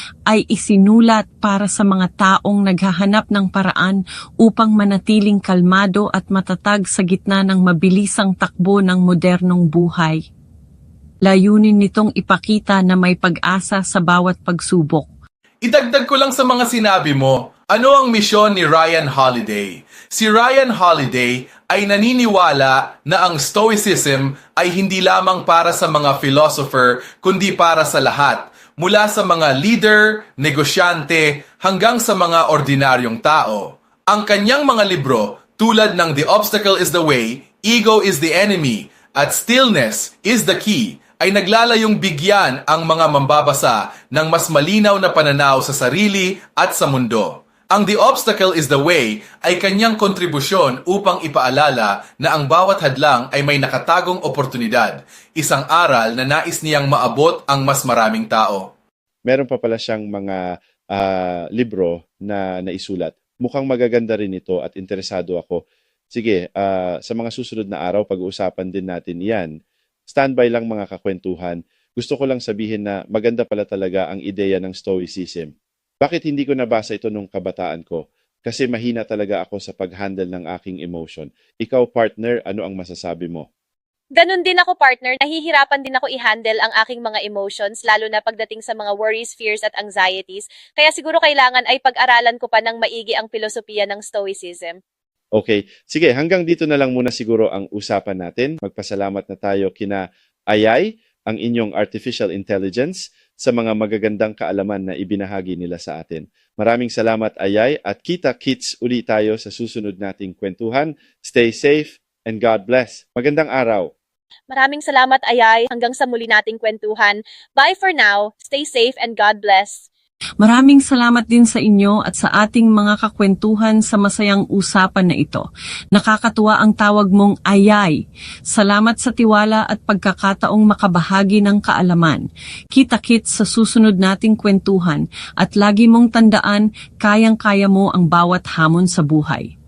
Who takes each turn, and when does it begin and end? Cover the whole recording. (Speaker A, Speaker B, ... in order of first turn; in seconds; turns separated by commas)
Speaker A: 0.3-10.2, Speaker A: 11.2-15.1, Speaker B: 15.6-58.6, Speaker C: 59.2-69.5, Speaker C: 70.1-83.5, Speaker D: 84.2-94.8, Speaker C: 95.3-113.9, Speaker D: 114.5-119.8, Speaker A: 120.4-139.5